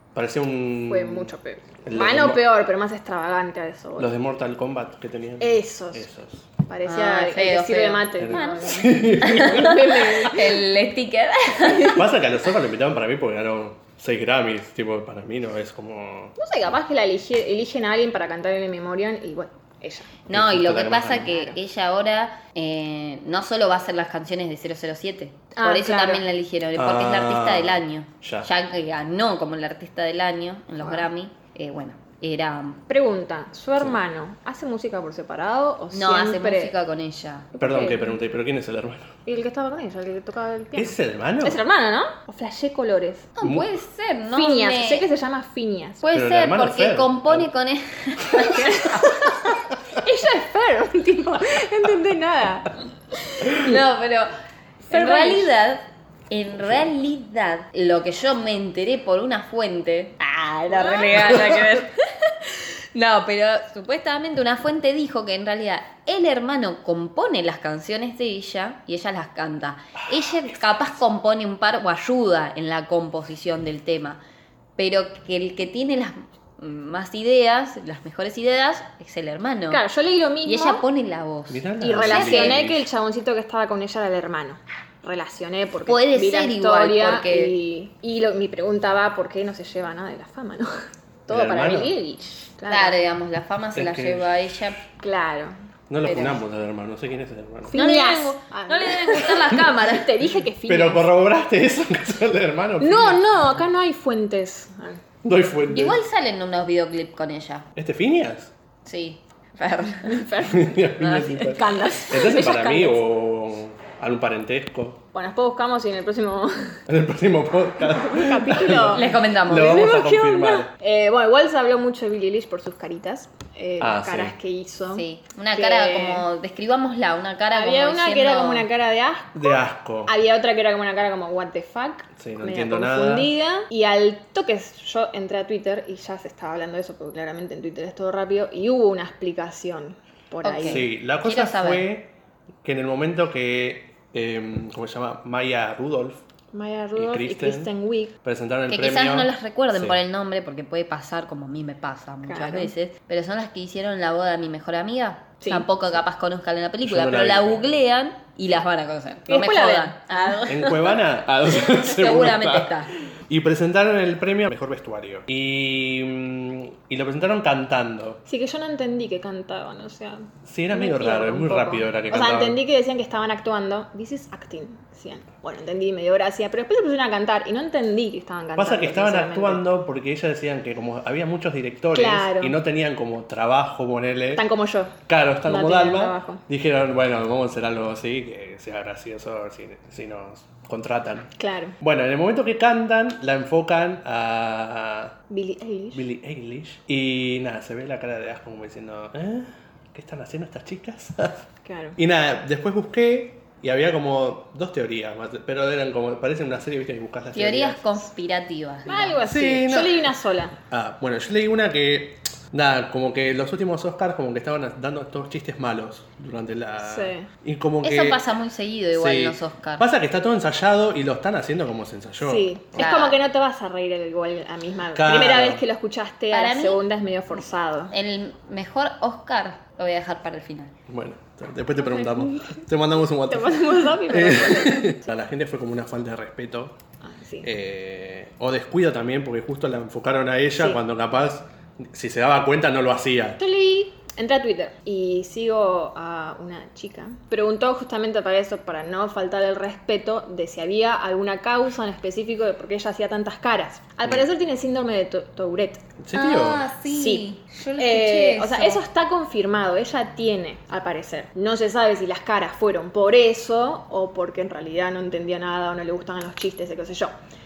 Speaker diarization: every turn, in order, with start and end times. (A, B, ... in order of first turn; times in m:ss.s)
0:00.1-0:01.3 A
0:00.9-0:04.1 B
0:01.8-0:02.4 A
0:04.0-0:06.4 A
0:05.4-0:06.1 B
0:06.7-0:10.7 B
0:06.8-0:12.0 C
0:08.2-0:10.3 A
0:11.9-0:16.4 A
0:16.4-0:20.1 B
0:20.3-0:32.8 C
0:20.3-0:21.5 A
0:25.6-0:26.2 B
0:26.7-0:28.5 A
0:30.8-0:31.1 B
0:32.9-0:36.7 B
0:35.9-0:37.5 C
0:37.5-0:38.2 B
0:37.6-0:39.1 A
0:39.2-0:43.3 B
0:40.8-0:41.6 A
0:43.4-0:45.0 C
0:43.4-0:43.7 A
0:44.3-0:46.0 B
0:46.0-0:49.4 C
0:46.1-0:47.5 A
0:48.3-0:49.4 B
0:49.9-0:52.8 B
0:53.3-0:53.6 B
0:53.5-0:54.3 C
0:54.8-0:55.5 B
0:54.9-1:14.2 C
1:00.7-1:01.3 B
1:10.2-1:10.6 A
1:14.8-1:19.8 C
1:19.7-1:20.8 B
1:20.4-1:22.6 C
1:21.5-1:22.8 A
1:21.8-1:33.0 B
1:25.8-1:27.5 C
1:31.3-1:32.0 A
1:32.7-1:34.8 C
1:33.7-1:34.3 A
1:35.0-1:35.6 B
1:35.9-1:37.8 A
1:36.0-1:36.4 C
1:37.6-1:41.1 B
1:37.7-1:40.1 C
1:40.7-1:43.3 A
1:42.8-1:45.0 B
1:45.2-1:46.0 A
1:45.7-1:47.7 C
1:47.7-1:48.5 A
1:48.8-1:50.3 C
1:50.0-1:50.8 B
1:50.4-1:55.0 A
1:51.0-1:51.6 C
1:51.5-1:53.0 B
1:55.1-1:56.8 B
1:56.9-2:00.7 A
1:57.9-2:06.2 B
1:58.9-1:59.9 C
2:03.8-2:04.3 A
2:04.9-2:08.7 C
2:07.5-2:20.8 B
2:09.4-2:10.1 A
2:12.2-2:13.3 A
2:20.4-2:21.8 C
2:20.6-2:22.1 A
2:22.6-2:26.2 A
2:26.5-2:28.1 B
2:27.0-2:27.7 A
2:28.2-2:30.0 A
2:28.7-2:41.0 C
2:32.3-2:32.7 B
2:35.4-2:35.6 B
2:36.8-2:37.8 A
2:39.3-2:40.5 B
2:40.5-2:48.2 A
2:41.5-2:42.9 C
2:48.3-2:59.6 B
2:50.4-2:52.6 A
2:58.6-3:04.4 A
3:01.9-3:02.6 B
3:04.3-3:06.4 B
3:05.1-3:15.2 A
3:11.4-3:11.8 B
3:15.3-3:16.0 B
3:15.9-3:21.4 A
3:21.6-3:22.0 B
3:22.0-3:28.0 A
3:27.3-3:29.2 C
3:28.8-3:30.6 B
3:29.2-3:30.1 A
3:30.7-3:38.2 A
3:36.8-3:37.3 B
3:37.8-3:39.8 C
3:38.9-3:42.9 A
3:42.2-3:47.9 B
3:42.8-3:43.2 C
3:44.9-3:45.6 A
3:46.3-3:46.8 C
3:47.9-3:50.7 C
3:50.9-3:56.8 A
3:51.9-3:52.6 B
3:53.3-3:55.1 B
3:57.0-3:57.5 B
3:57.4-4:03.4 A
4:03.4-4:15.8 B
4:16.0-4:16.6 A
4:16.1-4:18.8 C
4:16.8-4:17.2 B
4:17.8-4:27.1 B